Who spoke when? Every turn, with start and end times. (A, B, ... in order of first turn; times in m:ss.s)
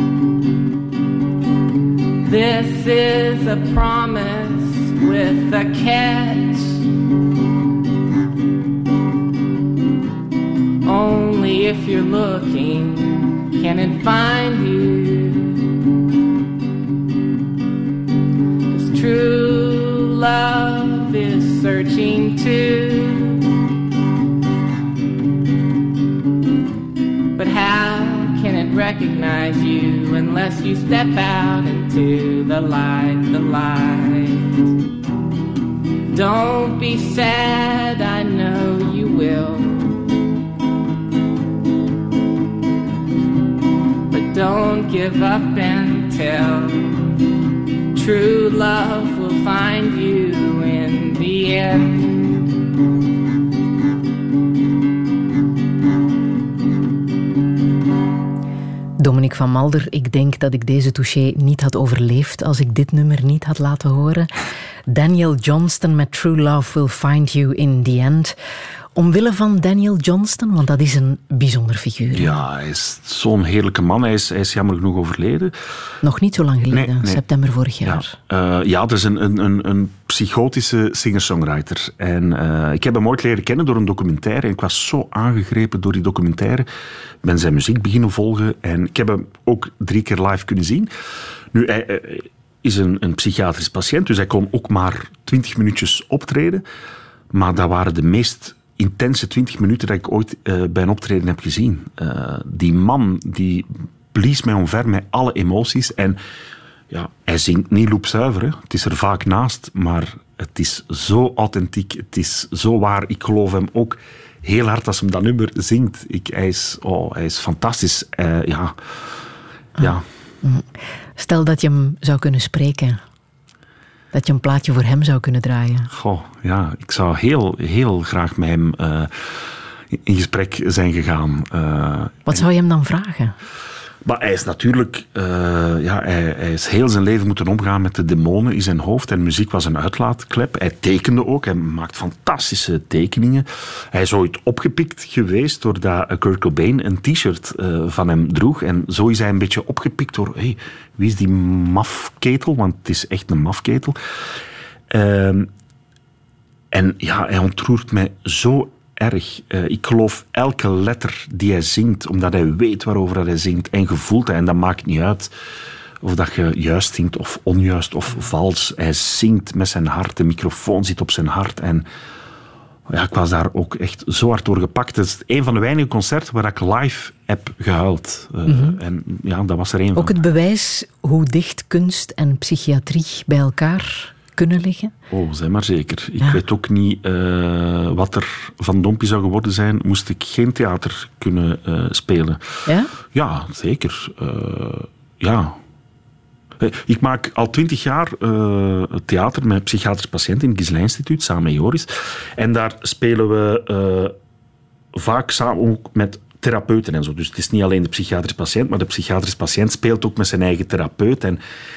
0:02.3-0:06.8 A
0:10.9-0:15.6 A
0:18.7-0:23.4 A
0:27.4-0:34.4 A
0:36.1-0:39.7 A
0:44.1-0:46.9 A
0:48.0-0:52.2 A
0:59.0-1:04.3 B
1:04.9-1:08.4 B
1:09.0-1:12.4 B
1:12.1-1:15.6 C
1:16.0-1:18.1 B
1:16.7-1:17.2 C
1:17.8-1:26.7 C
1:27.2-1:30.9 C
1:31.5-1:36.6 C
1:37.3-1:46.2 C
1:46.9-1:58.8 C
1:59.8-2:00.0 C
1:59.8-2:03.0 B
2:04.1-2:05.9 B
2:05.9-2:09.2 C
2:09.9-2:12.5 C
2:12.3-2:13.4 B
2:14.0-2:34.0 C
2:34.9-2:35.5 C
2:36.7-2:45.3 C
2:46.0-2:51.9 C
2:52.9-3:00.2 C
2:58.5-2:58.8 B
3:00.0-3:04.9 B
3:05.1-3:12.5 C
3:13.1-3:15.6 C
3:16.6-3:24.2 C
3:24.9-3:31.4 C